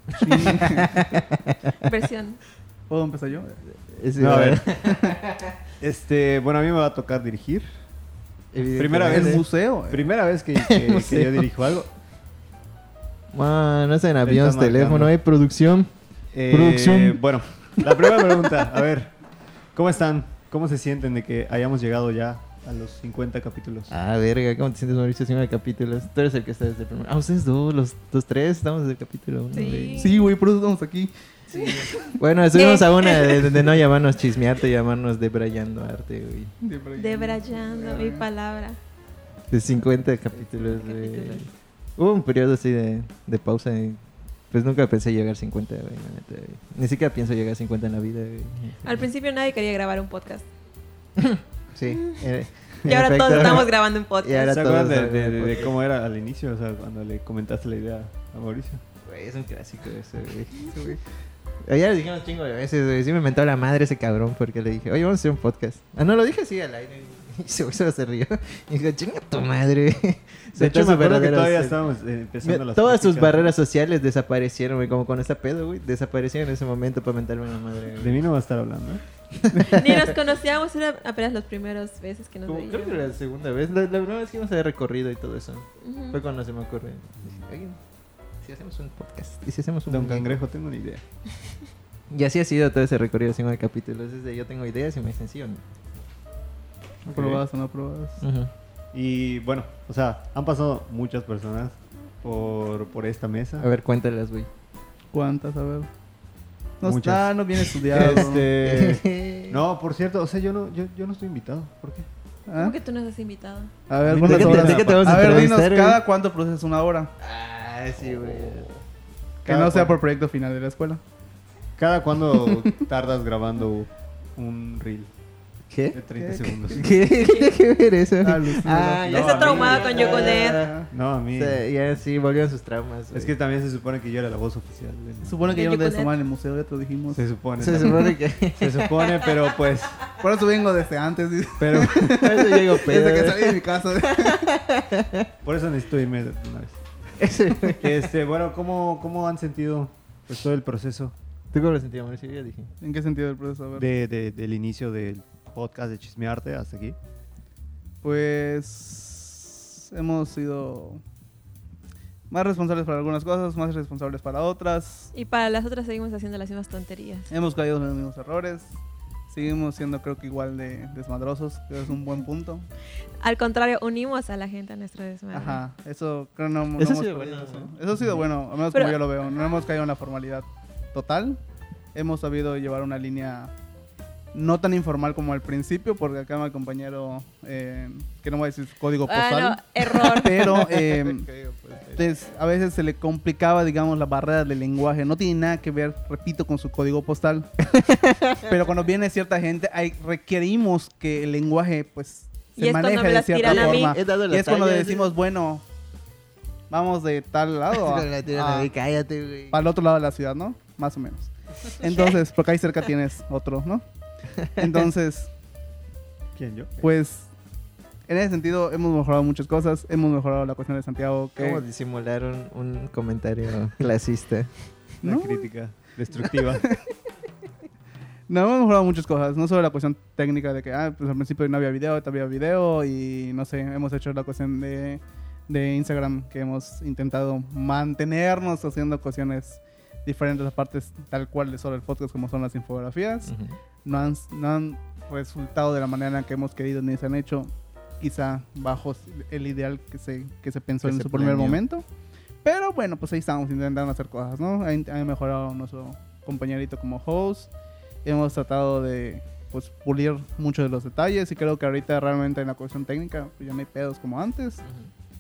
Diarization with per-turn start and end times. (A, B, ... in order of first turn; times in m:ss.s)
0:00.2-0:01.9 A
0:00.2-0:01.2 B
0:01.8-0:02.4 C
0:02.9-0:03.6 B
0:03.6-0:05.4 A
0:04.2-0:04.7 D
0:04.8-0:05.1 B
0:05.8-0:07.7 D
0:08.5-0:09.4 A
0:08.6-0:11.9 D
0:09.0-0:10.1 B
0:10.6-0:11.5 A
0:13.3-0:15.9 A
0:14.2-0:15.2 D
0:16.3-0:19.2 D
0:16.5-0:17.2 A
0:19.7-0:23.9 D
0:23.9-0:30.1 A
0:29.5-0:30.3 C
0:30.0-0:31.1 B
0:31.5-0:33.7 C
0:31.5-0:36.5 A
0:36.6-0:38.2 B
0:37.0-0:38.8 C
0:39.5-0:49.1 A
0:40.5-0:41.4 C
0:48.8-0:50.5 C
0:51.2-0:53.7 A
0:52.8-0:54.8 C
0:53.2-0:53.7 D
0:54.2-0:55.7 A
0:54.5-0:58.8 D
0:59.0-1:00.9 A
1:00.7-1:01.0 B
1:01.6-1:11.8 A
1:10.6-1:13.5 D
1:12.4-1:18.2 A
1:18.0-1:19.0 D
1:19.4-1:20.1 A
1:19.7-1:23.1 C
1:22.5-1:27.8 A
1:25.8-1:26.2 C
1:27.2-1:27.5 D
1:28.4-1:30.4 A
1:29.9-1:31.0 D
1:32.1-1:35.6 A
1:37.0-1:38.2 B
1:37.1-1:37.4 D
1:38.2-1:38.5 A
1:38.9-1:43.7 D
1:43.6-1:44.5 A
1:45.1-1:45.9 B
1:46.8-1:48.5 B
1:46.8-1:52.1 D
1:47.9-1:49.6 A
1:52.5-1:52.8 B
1:52.6-1:53.7 C
1:53.9-1:57.1 B
1:54.0-1:55.5 D
1:54.1-1:56.0 A
1:57.2-1:58.8 A
1:58.0-1:58.6 D
1:59.4-2:01.0 B
1:59.4-2:00.0 D
2:01.8-2:05.1 D
2:02.5-2:02.8 B
2:05.7-2:06.0 A
2:05.9-2:06.9 D
2:06.2-2:06.7 B
2:06.7-2:10.8 A
2:07.2-2:07.6 C
2:08.2-2:10.9 B
2:09.0-2:11.6 D
2:09.1-2:10.7 C
2:11.3-2:13.3 A
2:13.1-2:15.6 D
2:15.2-2:17.2 B
2:15.5-2:16.1 C
2:17.1-2:20.0 D
2:17.6-2:19.3 A
2:20.2-2:24.6 B
2:21.6-2:22.3 D
2:22.1-2:25.3 A
2:25.4-2:26.8 D
2:27.2-2:28.0 A
2:27.7-2:31.1 D
2:31.5-2:32.7 A
2:32.8-2:33.8 B
2:33.8-2:37.0 D
2:38.0-2:41.0 B
2:42.3-2:45.1 B
2:45.1-2:47.3 C
2:47.3-2:48.7 B
2:49.3-2:52.7 B
2:53.2-2:55.6 C
2:55.3-3:01.4 B
2:56.8-2:57.7 A
2:58.7-2:59.0 C
3:01.9-3:03.5 B
3:04.3-3:11.3 B
3:09.0-3:10.7 C
3:10.5-3:12.0 A
3:12.0-3:17.5 B
3:17.7-3:18.5 A
3:18.4-3:25.6 B
3:22.6-3:24.0 C
3:23.4-3:25.1 A
3:26.7-3:28.7 B
3:27.7-3:29.6 A
3:29.5-3:33.8 B
3:31.9-3:32.2 C
3:34.5-3:35.3 B
3:36.3-3:36.9 D
3:36.8-3:37.3 B
3:38.1-3:41.6 B
3:41.4-3:44.5 A
3:45.0-3:45.4 B
3:45.0-3:46.7 D
3:46.5-3:46.8 B
3:48.3-4:03.3 B
4:03.2-4:03.6 A
4:03.8-4:11.8 B
4:10.8-4:11.6 A
4:12.4-4:17.5 B
4:18.0-4:24.6 B
4:24.6-4:24.9 A